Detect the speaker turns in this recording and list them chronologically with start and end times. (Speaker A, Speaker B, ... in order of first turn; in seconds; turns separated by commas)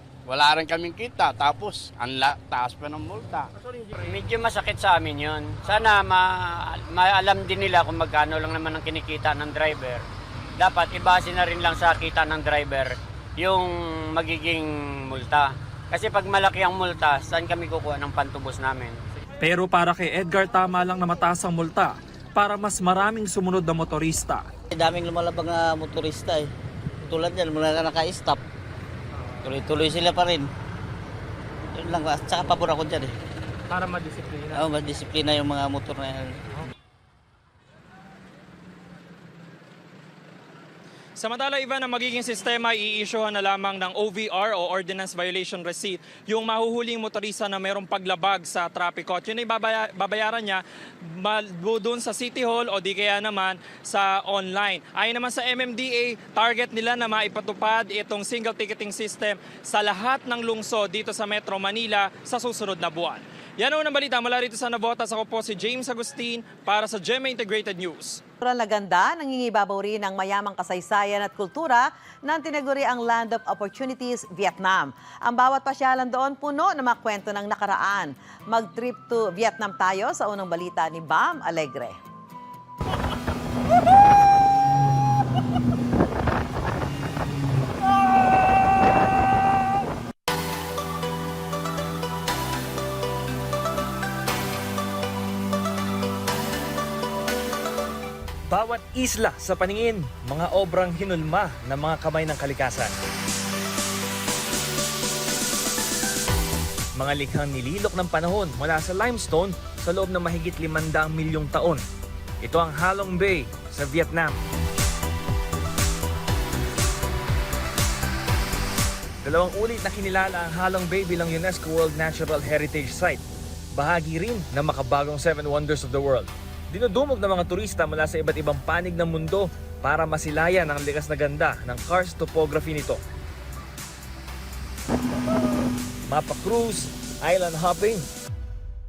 Speaker A: 0.3-3.5, Speaker B: 4.0-10.0, Speaker B: 10.6-19.0, Speaker C: 19.4-24.5, Speaker D: 24.7-26.5, Speaker D: 27.1-28.4, Speaker D: 29.4-30.5, Speaker D: 31.8-33.1, Speaker D: 34.5-36.3, Speaker C: 41.2-68.2, Speaker E: 68.4-82.0, Speaker F: 98.5-102.9, Speaker F: 107.0-111.8, Speaker F: 112.4-114.4, Speaker F: 119.2-123.2, Speaker F: 123.8-133.0, Speaker F: 136.1-138.1